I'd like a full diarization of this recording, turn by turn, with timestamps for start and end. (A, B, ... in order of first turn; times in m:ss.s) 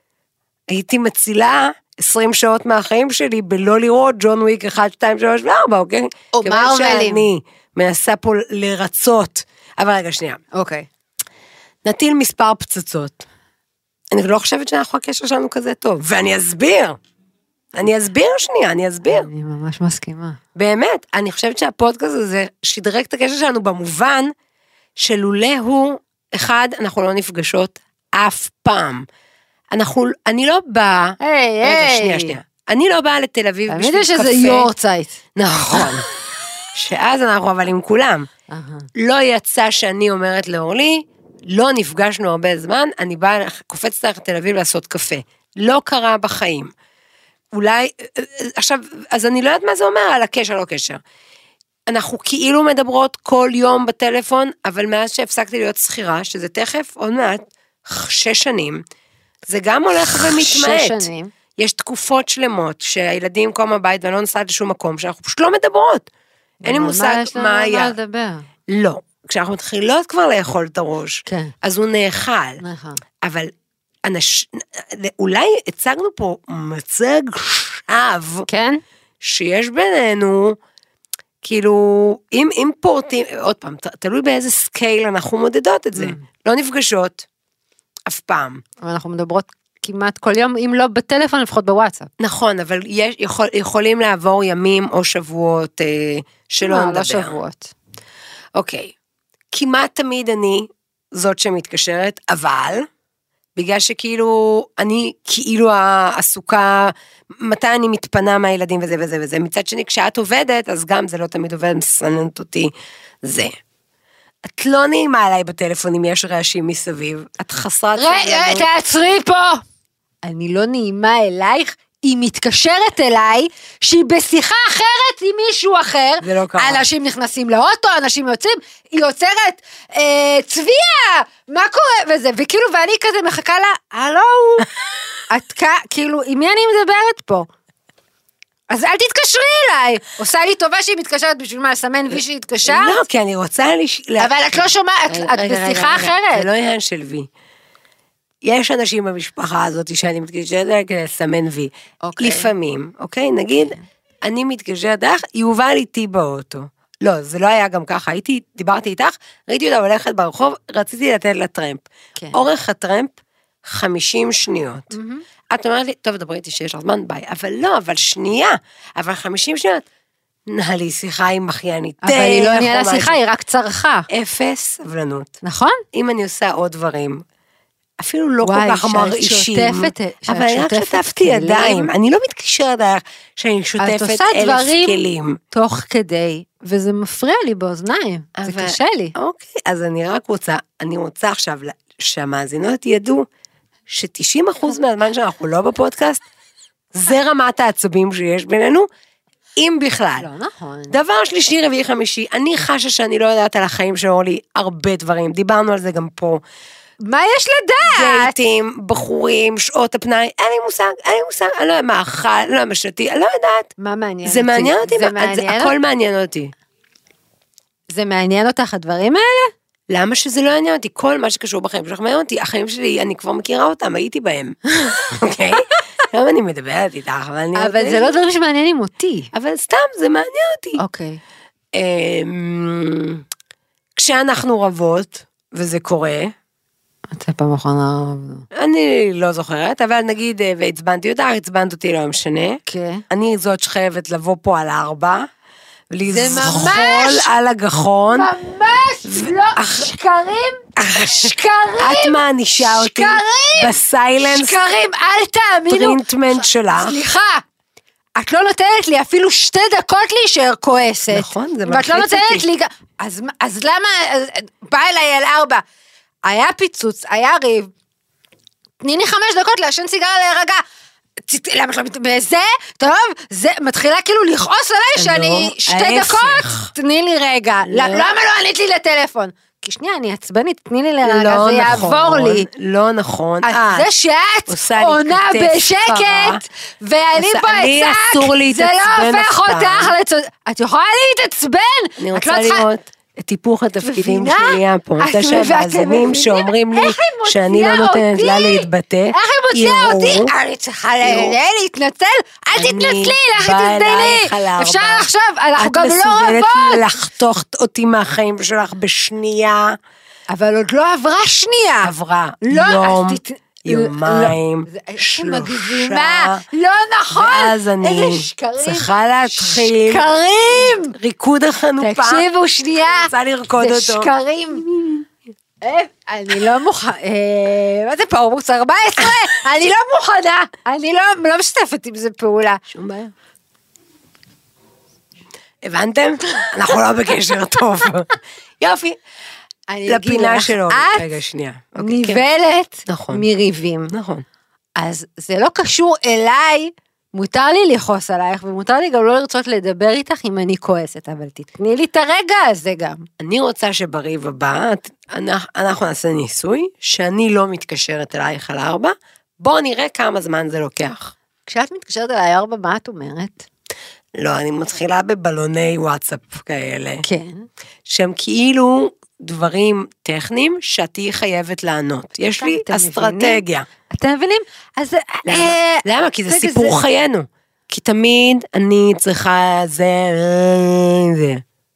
0:00.7-0:10.4 A
0:06.3-0:07.3 B
0:10.5-0:10.9 B
0:11.8-0:13.2 A
0:14.1-0:17.0 A
0:17.7-0:19.3 A
0:19.0-0:20.4 B
0:20.5-0:24.3 A
0:25.0-0:29.0 A
0:29.7-0:34.7 A
0:31.2-0:32.4 B
0:33.7-0:35.2 B
0:35.4-0:36.1 A
0:36.7-0:38.3 A
0:38.5-0:38.9 B
0:39.0-0:46.7 A
0:47.5-0:51.0 A
0:51.9-0:58.8 A
0:59.4-1:06.1 A
1:00.2-1:01.3 B
1:06.6-1:08.5 B
1:06.6-1:07.9 A
1:08.7-1:12.6 A
1:11.2-1:11.5 B
1:12.6-1:13.0 B
1:13.2-1:13.5 A
1:14.0-1:18.5 A
1:18.5-1:18.8 B
1:19.2-1:20.6 A
1:21.4-1:27.2 A
1:25.9-1:26.2 B
1:28.1-1:28.6 A
1:28.8-1:32.1 B
1:32.2-1:37.4 A
1:36.6-1:37.7 B
1:38.6-1:38.9 A
1:39.5-1:42.9 A
1:43.6-1:52.7 A
1:53.2-1:53.5 A
1:54.4-1:58.7 A
1:58.0-1:59.6 B
2:00.2-2:14.7 B
2:06.2-2:06.8 A
2:15.3-2:17.5 B
2:18.7-2:23.0 B
2:22.6-2:27.3 A
2:24.2-2:26.5 B
2:28.4-2:45.0 A
2:32.0-2:32.5 B
2:42.2-2:42.4 B
2:44.9-2:45.2 B
2:45.5-2:49.8 A
2:50.5-2:53.1 A
2:52.0-2:54.1 B
2:54.1-2:55.4 A
2:55.4-2:55.8 B
2:55.9-2:57.2 A
2:58.0-3:05.4 A
2:58.4-3:01.9 B
3:03.8-3:09.1 B
3:08.4-3:13.3 A
3:13.9-3:16.2 A
3:16.9-3:18.9 A
3:19.6-3:20.3 A
3:20.2-3:21.0 B
3:20.9-3:26.4 A
3:27.0-3:28.4 B
3:27.8-3:33.7 A
3:33.8-3:35.7 B
3:34.2-3:36.5 A
3:37.9-3:39.5 B
3:39.9-3:48.2 A
3:47.5-3:49.3 B
3:49.3-3:50.8 A
3:50.8-3:51.2 B
3:51.7-3:53.2 A
3:54.0-3:56.3 A
3:57.1-3:58.4 B
3:58.5-4:05.3 A
4:02.7-4:03.0 B
4:05.9-4:08.3 A
4:06.1-4:07.3 B
4:08.1-4:10.6 B
4:09.0-4:09.9 A
4:10.8-4:14.6 A
4:11.1-4:17.4 B
4:15.7-4:17.0 A
4:18.2-4:25.6 B
4:21.1-4:22.4 A
4:26.2-4:27.7 B
4:28.8-4:30.6 B
4:31.3-4:42.5 B
4:35.0-4:36.7 A
4:37.6-4:38.1 A
4:41.0-4:43.9 A
4:43.4-4:52.6 B
4:44.5-4:46.4 A
4:47.2-4:49.9 A
4:52.0-5:00.3 A
4:53.8-5:06.9 B
5:01.0-5:01.4 A
5:02.5-5:09.8 A
5:10.3-5:11.9 B
5:11.8-5:16.4 A
5:12.4-5:20.9 B
5:17.1-5:20.1 A
5:20.6-5:22.2 A
5:21.8-5:24.6 B
5:22.8-5:24.1 A
5:24.6-5:25.0 A
5:25.6-5:32.6 B
5:32.7-5:33.1 A
5:35.6-5:39.0 A
5:39.7-5:41.0 B
5:39.9-5:42.2 A
5:41.8-5:43.9 B
5:42.9-5:43.2 A
5:43.9-5:44.2 A
5:44.8-5:53.0 B
5:53.2-6:01.1 A
6:01.4-6:03.4 B
6:04.2-6:07.0 A
6:07.0-6:07.5 B
6:07.8-6:13.7 A
6:12.4-6:16.8 B
6:15.2-6:21.4 A